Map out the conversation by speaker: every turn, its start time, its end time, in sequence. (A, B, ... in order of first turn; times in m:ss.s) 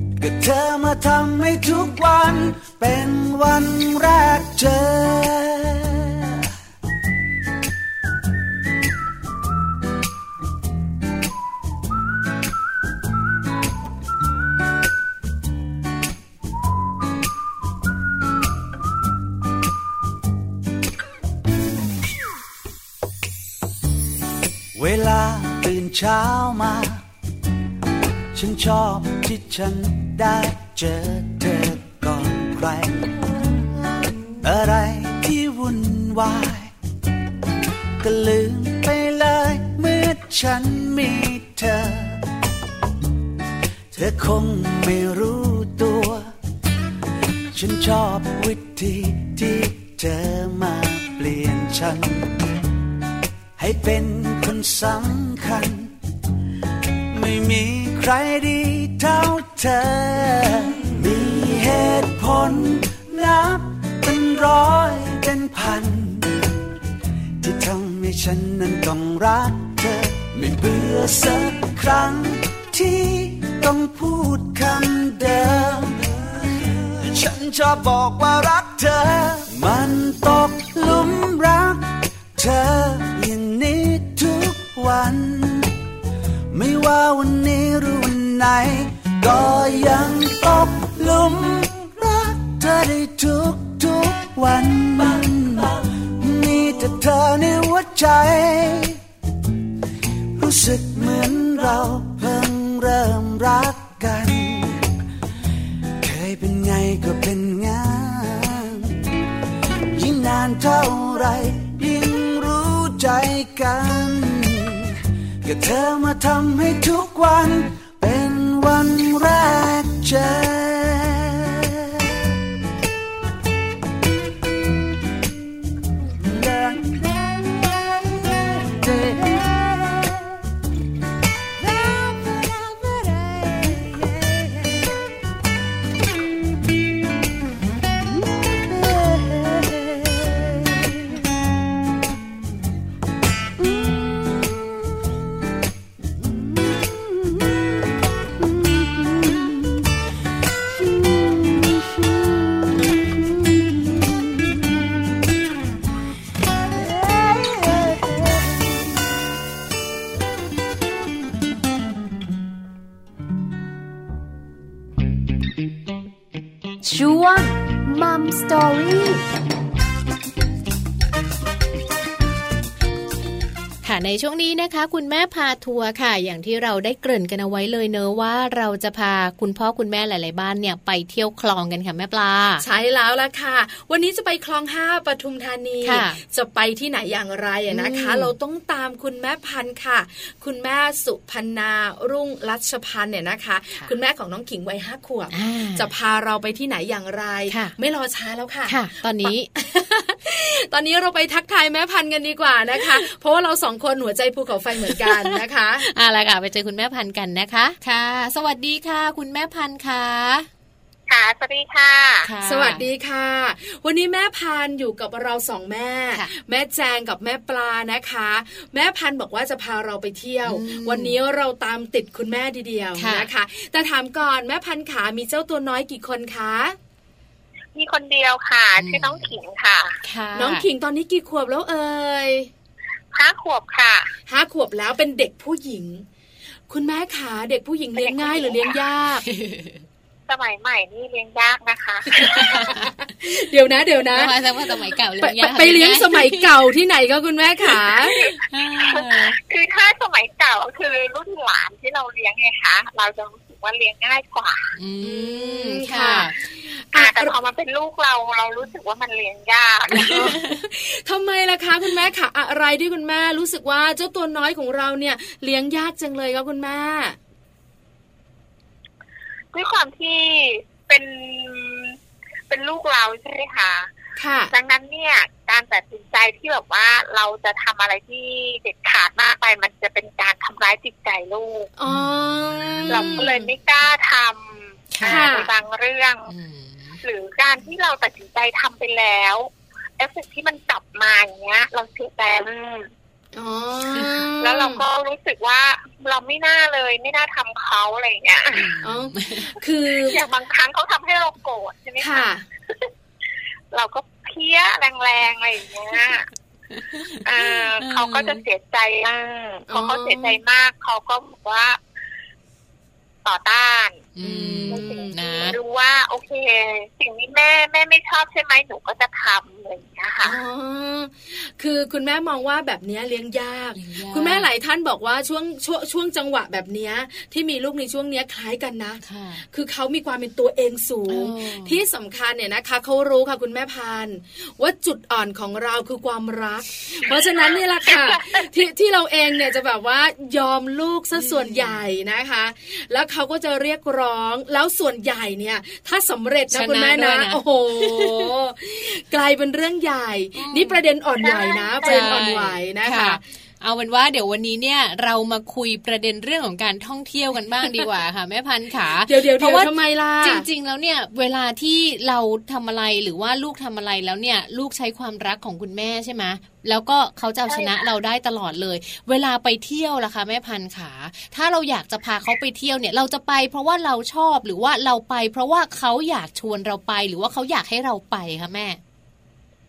0:00.2-0:06.4 A
0:24.8-0:27.0 A
0:28.3-0:33.2 A
0:34.4-0:36.7 A
0:38.0-0:42.2 A
0:43.9-0:46.3 A
0:47.5-0:52.4 A
0:53.6-0:56.0 A
0:57.1-1:06.5 A
1:07.4-1:25.8 A
1:26.5-1:39.0 A
1:40.4-1:44.8 A
1:46.0-1:49.0 A
1:49.9-2:02.2 A
2:06.2-2:10.4 A
2:11.6-2:14.9 A
2:18.5-2:20.8 A
2:46.8-2:49.2 B
2:53.8-3:02.6 C
3:02.6-3:25.9 D
3:05.8-3:06.2 C
3:07.7-3:08.3 C
3:15.3-3:15.9 C
3:17.5-3:17.8 C
3:18.7-3:19.5 C
3:25.0-3:30.5 C
3:31.1-3:32.3 E
3:32.2-3:32.9 C
3:32.4-3:46.8 D
3:40.5-3:41.2 C
3:43.0-3:43.3 C
3:47.8-3:50.0 E
3:48.8-3:49.4 C
3:50.0-3:50.6 C
3:50.4-3:52.5 D
3:53.1-3:54.1 E
3:54.3-3:56.0 D
3:56.7-3:59.2 D
3:58.0-3:58.8 E
3:59.3-3:59.8 C
4:00.3-4:02.6 E
4:02.2-4:04.4 D
4:02.4-4:02.9 C
4:04.1-4:06.5 C
4:05.2-4:08.3 D
4:08.3-4:14.7 E
4:08.5-4:09.4 C
4:14.8-4:16.4 C
4:15.0-4:17.3 D
4:16.9-4:20.3 E
4:19.9-4:20.5 C
4:20.0-4:27.2 D
4:29.5-4:32.0 E
4:32.5-4:33.9 E
4:34.2-4:34.5 D
4:34.5-4:41.7 E
4:41.8-4:43.5 D
4:41.9-4:43.3 C
4:42.9-4:46.3 E
4:44.9-4:45.3 C
4:45.0-4:45.5 D
4:46.3-4:47.0 C
4:47.0-4:52.9 E
4:53.4-4:54.8 D
4:54.4-4:58.7 E
4:58.5-4:59.5 C
4:58.8-5:00.2 D
5:00.0-5:02.9 E
5:02.0-5:02.4 D
5:03.7-5:06.3 E
5:06.8-5:08.4 C
5:07.2-5:11.8 E
5:09.7-5:10.4 D
5:13.2-5:14.1 E
5:14.2-5:15.6 C
5:14.2-5:15.2 D
5:14.7-5:20.4 E
5:20.2-5:53.2 D
5:23.8-5:24.5 C
5:29.0-5:29.4 C
5:31.1-5:31.8 C
5:41.2-5:41.8 C
5:46.5-5:48.3 C
5:50.4-5:50.8 C
5:51.2-5:52.2 E
5:51.8-6:18.8 C
5:59.0-6:00.5 D
6:07.5-6:07.8 E